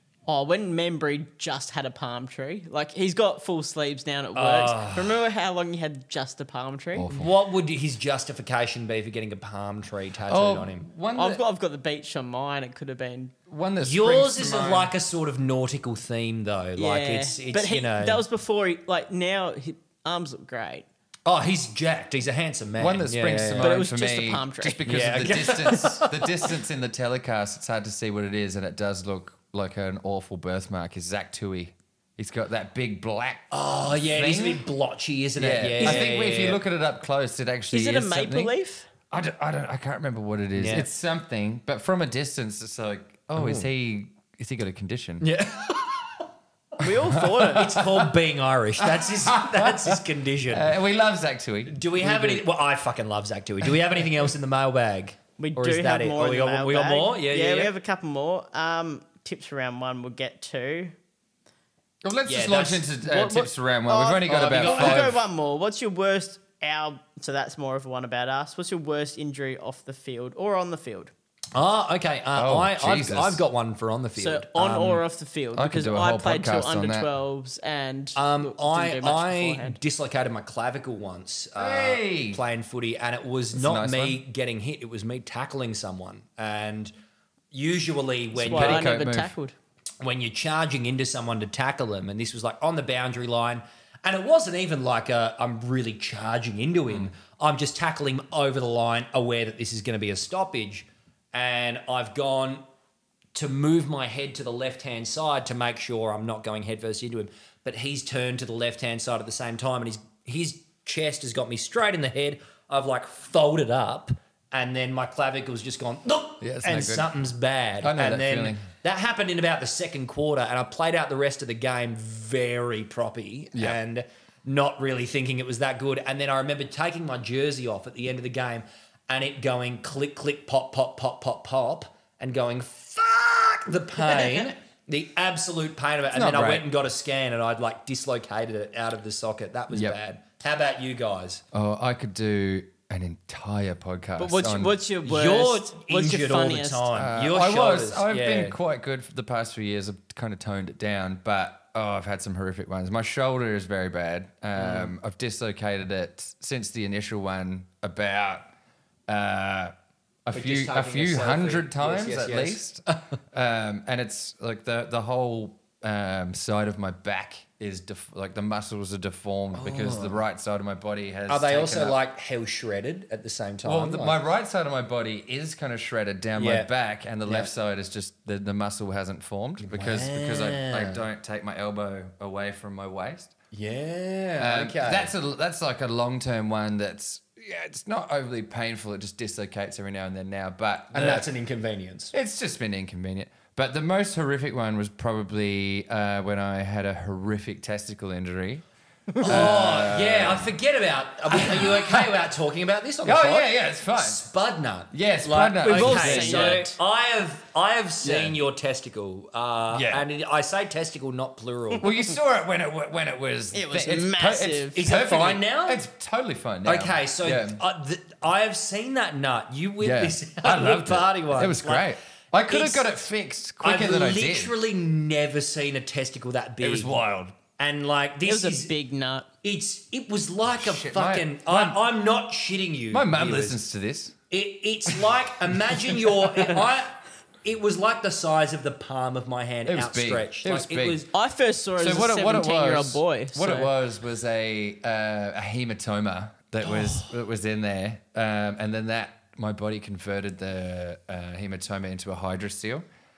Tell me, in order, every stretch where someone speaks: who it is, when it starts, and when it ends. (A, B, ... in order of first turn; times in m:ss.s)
0:00.3-0:07.1 A
0:04.3-0:05.2 B
0:06.9-0:07.3 C
0:07.1-0:10.9 B
0:10.3-0:11.4 C
0:11.2-0:13.3 A
0:13.5-0:14.9 C
0:13.8-0:18.2 B
0:16.8-0:20.9 A
0:21.3-0:23.8 B
0:22.8-0:34.6 C
0:23.6-0:24.8 A
0:24.9-0:26.4 B
0:33.5-0:36.6 B
0:35.4-0:38.5 C
0:37.7-0:38.9 A
0:39.1-0:45.3 C
0:40.6-0:40.9 B
0:43.3-0:43.7 B
0:45.2-0:46.2 B
0:46.8-0:47.7 A
0:46.8-0:48.1 C
0:47.4-0:50.7 B
0:48.8-0:52.5 C
0:51.7-0:57.7 B
0:53.6-0:54.0 C
0:55.4-1:00.9 A
1:02.0-1:05.2 C
1:02.3-1:03.4 B
1:03.2-1:11.1 A
1:04.2-1:05.1 B
1:11.6-1:15.0 B
1:12.3-1:13.4 C
1:14.2-1:19.8 A
1:14.6-1:15.0 C
1:15.5-1:17.1 C
1:18.1-1:26.9 B
1:21.6-1:22.4 C
1:23.5-1:24.2 C
1:27.5-1:28.9 B
1:28.4-1:29.5 A
1:28.5-1:29.3 C
1:30.0-1:42.6 B
1:43.3-2:21.4 B
1:56.4-1:57.1 C
1:57.8-1:58.6 C
2:16.1-2:16.7 C
2:19.7-2:20.0 C
2:21.5-2:24.8 C
2:24.2-2:26.9 A
2:25.0-2:28.6 B
2:26.9-2:38.5 C
2:34.6-2:34.9 B
2:39.1-2:39.7 C
2:40.3-2:52.0 C
2:40.3-2:43.0 B
2:49.5-2:50.2 B
2:51.3-2:54.2 B
2:53.6-3:03.3 C
2:56.4-2:56.7 B
2:57.2-2:57.5 B
2:59.6-3:01.0 B
3:03.5-3:05.1 B
3:04.4-3:11.3 C
3:10.9-3:12.1 B
3:12.1-3:18.6 C
3:19.2-3:20.5 C
3:19.2-3:31.9 B
3:21.3-3:22.1 C
3:23.0-3:24.2 C
3:24.9-3:26.7 C
3:25.6-3:26.8 A
3:28.0-3:28.4 C
3:29.7-3:30.0 C
3:31.8-3:37.6 C
3:33.5-3:34.9 A
3:34.7-3:35.8 B
3:36.6-3:41.9 B
3:39.8-3:44.5 C
3:42.4-3:42.9 B
3:43.6-3:47.0 B
3:46.6-3:47.4 C
3:47.6-3:48.7 B
3:48.2-3:49.3 A
3:49.4-3:53.6 B
3:50.5-3:51.8 C
3:52.9-3:54.2 C
3:54.3-4:01.1 B
3:55.7-3:56.6 C
3:59.6-4:01.0 C
4:01.1-4:03.7 A
4:01.8-4:12.8 C